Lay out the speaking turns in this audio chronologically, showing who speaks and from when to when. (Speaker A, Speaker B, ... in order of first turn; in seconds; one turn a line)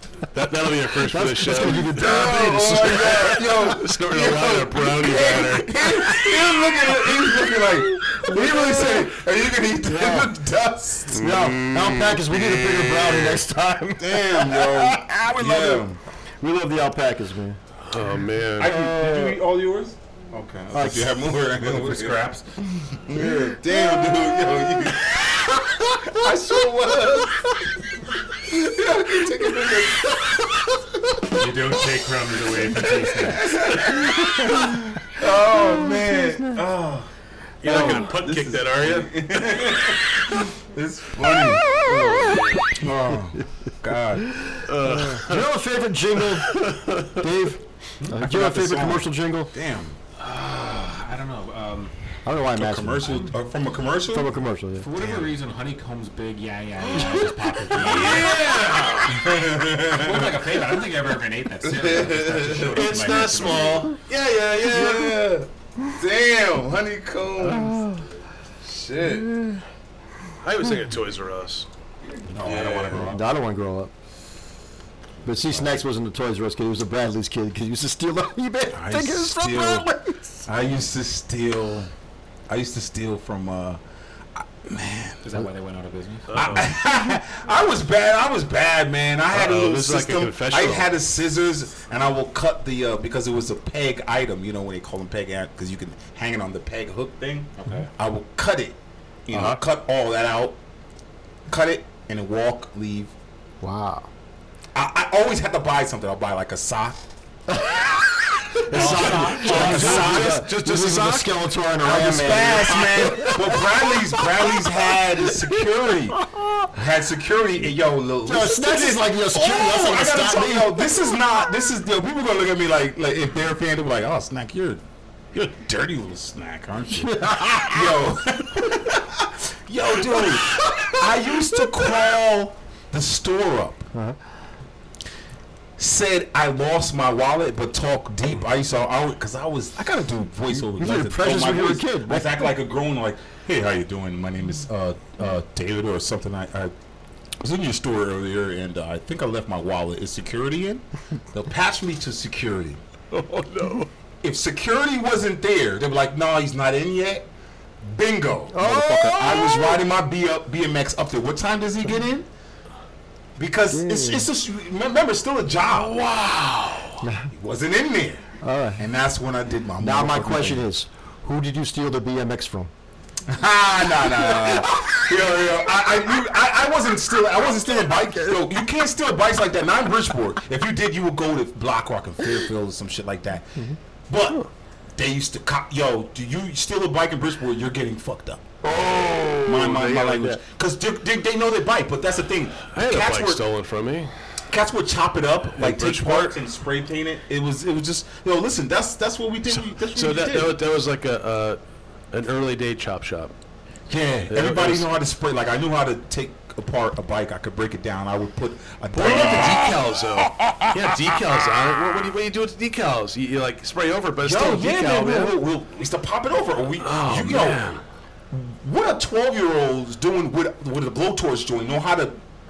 Speaker A: 0.3-6.4
Speaker B: 1.1-3.6
Speaker C: 1.8-11.5
Speaker B: 8.2-9.1
Speaker B: 9.7-10.3
Speaker B: 11.1-15.8
Speaker A: 11.2-13.4
Speaker C: 14.0-16.0
Speaker B: 16.4-17.6
Speaker A: 17.9-18.7
Speaker C: 18.6-31.5
Speaker B: 18.6-19.4
Speaker B: 20.7-22.1
Speaker D: 31.4-33.7
Speaker C: 33.0-37.1
Speaker B: 34.1-34.8
Speaker A: 37.6-39.9
Speaker C: 37.6-44.4
Speaker B: 41.6-42.7
Speaker A: 41.8-42.7
Speaker B: 44.4-49.5
Speaker A: 44.7-45.5
Speaker A: 46.2-47.2
Speaker C: 48.0-50.0
Speaker D: 50.2-52.0
Speaker B: 52.2-53.3
Speaker C: 52.5-54.4
Speaker B: 54.1-54.9
Speaker D: 54.8-58.4
Speaker C: 54.9-55.3
Speaker A: 57.8-59.3
Speaker C: 57.9-60.5
Speaker D: 59.9-64.0
Speaker C: 61.6-62.9
Speaker A: 62.7-65.2
Speaker C: 64.6-67.9
Speaker C: 68.6-69.3
Speaker A: 70.4-71.7
Speaker C: 72.3-73.2
Speaker A: 72.4-73.1
Speaker B: 72.9-73.9
Speaker B: 75.2-80.5
Speaker C: 75.3-75.7
Speaker C: 78.7-79.9
Speaker C: 80.5-81.9
Speaker C: 82.5-83.8
Speaker C: 84.3-85.3
Speaker D: 85.2-86.6
Speaker A: 86.3-86.7
Speaker C: 86.3-98.8
Speaker A: 89.3-90.9
Speaker D: 97.6-97.9
Speaker C: 99.3-100.6
Speaker B: 99.3-99.6
Speaker C: 101.5-103.1
Speaker B: 103.6-104.1
Speaker C: 104.8-107.0
Speaker B: 107.5-107.9
Speaker B: 108.5-114.5
Speaker C: 108.6-111.3
Speaker A: 108.7-111.2
Speaker D: 108.8-109.6
Speaker C: 111.8-116.2
Speaker B: 116.2-116.7
Speaker C: 116.7-133.9
Speaker B: 118.2-121.1
Speaker B: 126.9-127.9
Speaker B: 130.7-131.0
Speaker C: 135.8-146.7
Speaker B: 140.5-142.5
Speaker C: 147.4-152.8
Speaker A: 153.1-153.9
Speaker C: 154.2-157.3
Speaker C: 157.8-162.3
Speaker B: 158.5-159.8
Speaker C: 163.4-166.0
Speaker B: 163.7-164.3
Speaker A: 165.7-167.0
Speaker B: 167.0-167.3
Speaker C: 167.3-168.2
Speaker B: 168.4-168.8
Speaker C: 168.8-170.7
Speaker B: 169.8-172.7
Speaker C: 173.3-183.6
Speaker B: 173.9-175.9
Speaker B: 178.1-178.4
Speaker C: 184.1-184.4
Speaker C: 185.0-188.5
Speaker A: 188.6-190.3
Speaker B: 188.9-189.4
Speaker C: 189.4-193.4
Speaker A: 192.7-194.1
Speaker C: 194.5-200.6
Speaker A: 195.6-196.4
Speaker A: 199.8-201.6
Speaker A: 202.1-203.3
Speaker C: 203.9-211.2
Speaker A: 204.3-204.9
Speaker A: 208.9-215.4
Speaker C: 214.2-217.6
Speaker A: 216.8-217.8
Speaker C: 218.3-222.2